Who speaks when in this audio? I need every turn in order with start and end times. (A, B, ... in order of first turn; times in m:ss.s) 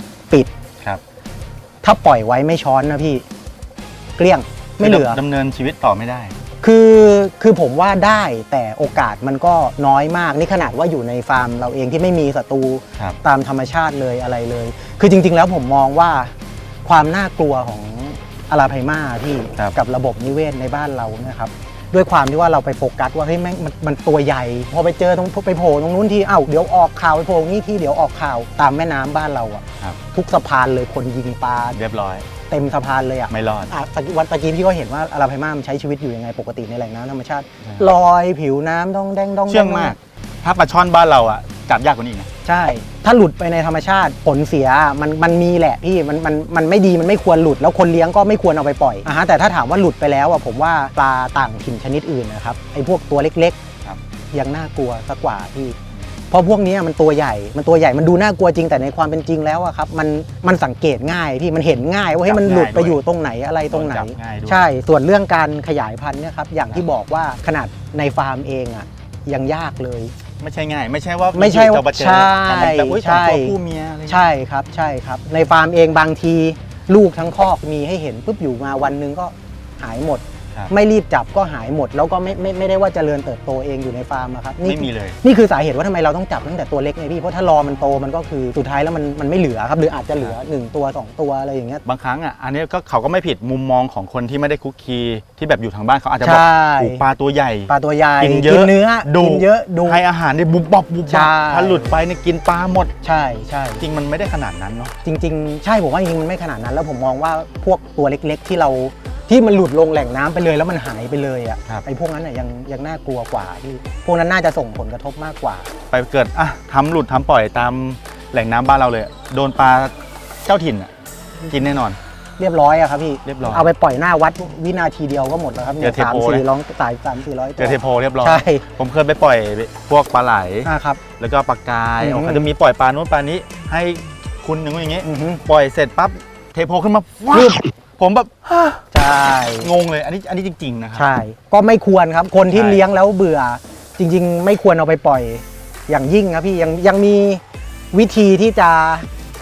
0:01.8-0:03.2 A
0:04.2-0:05.2 A
0:04.8-0:06.3 B
0:06.6-0:16.3 A
0:16.8-0:31.8 A
0:31.7-0:32.3 B
0:32.5-0:40.0 A
0:33.3-0:33.7 B
0:37.6-0:37.9 B
0:39.5-0:42.3 B
0:42.4-0:53.6 A
0:54.3-0:55.8 A
0:56.3-1:10.1 A
1:02.2-1:03.0 B
1:03.7-1:04.7 B
1:10.4-1:14.2 B
1:11.3-1:31.8 A
1:24.6-1:25.2 B
1:31.8-1:42.9 B
1:36.2-1:37.0 A
1:37.7-1:40.0 A
1:41.1-1:42.0 A
1:43.0-1:43.9 A
1:43.8-1:44.9 B
1:45.0-1:55.7 A
1:55.9-2:00.9 B
2:01.5-2:02.0 B
2:02.4-2:08.6 A
2:03.2-2:03.7 B
2:05.8-2:06.4 B
2:07.6-2:18.8 B
2:10.6-2:11.0 A
2:12.0-2:12.5 A
2:15.0-2:15.4 A
2:17.3-2:17.6 A
2:18.9-2:19.7 A
2:19.6-2:21.1 B
2:20.9-2:29.1 A
2:22.5-2:22.8 B